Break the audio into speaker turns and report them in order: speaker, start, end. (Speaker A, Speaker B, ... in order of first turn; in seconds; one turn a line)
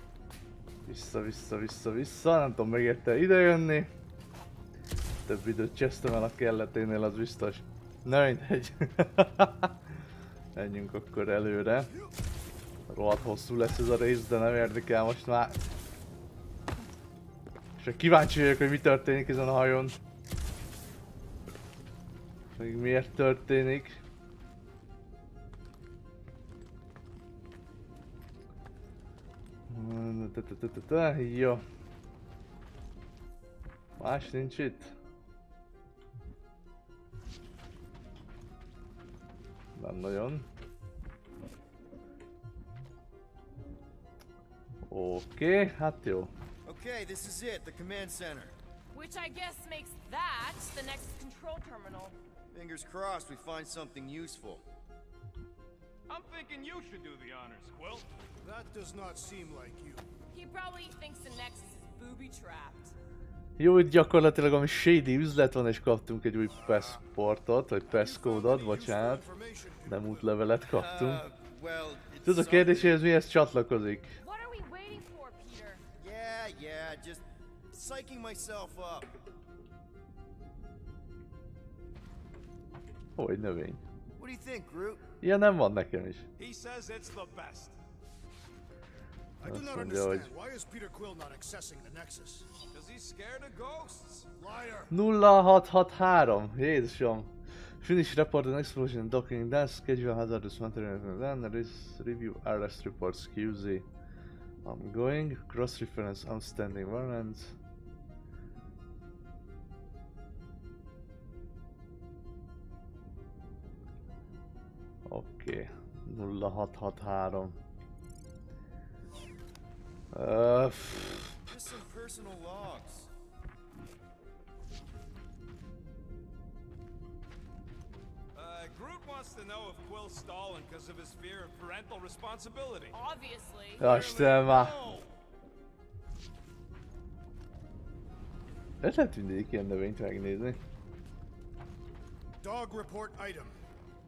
Speaker A: 0.8-3.9
Speaker A: 5.2-9.7
Speaker A: 10.6-11.9
Speaker A: 12.9-15.6
Speaker A: 17.8-20.0
Speaker A: 22.5-24.0
Speaker A: 29.7-31.6
Speaker A: 34.0-34.9
Speaker A: 39.8-40.5
Speaker A: 44.9-46.3
Speaker B: 46.6-48.5
Speaker C: 48.9-52.1
Speaker B: 52.5-54.6
Speaker D: 56.1-58.1
Speaker E: 58.4-60.1
Speaker C: 60.3-62.9
Speaker A: 63.6-69.2
Speaker E: 66.7-66.9
Speaker E: 67.9-70.3
Speaker A: 69.8-71.2
Speaker B: 70.7-73.0
Speaker A: 72.2-74.1
Speaker C: 74.2-75.8
Speaker B: 76.0-79.1
Speaker A: 83.2-83.8
Speaker B: 84.2-85.1
Speaker A: 85.2-86.2
Speaker D: 86.4-87.8
Speaker E: 89.4-92.5
Speaker A: 89.4-90.3
Speaker D: 92.7-94.3
Speaker E: 94.4-94.9
Speaker A: 94.9-97.3
Speaker A: 97.8-103.9
Speaker A: 104.6-107.5
Speaker A: 115.1-117.5
Speaker A: 120.1-121.4
Speaker B: 121.5-123.1
Speaker D: 128.3-132.9
Speaker C: 132.9-133.9
Speaker A: 133.8-134.8
Speaker B: 133.8-135.0
Speaker E: 133.8-135.0
Speaker A: 138.8-140.6
Speaker E: 142.4-143.6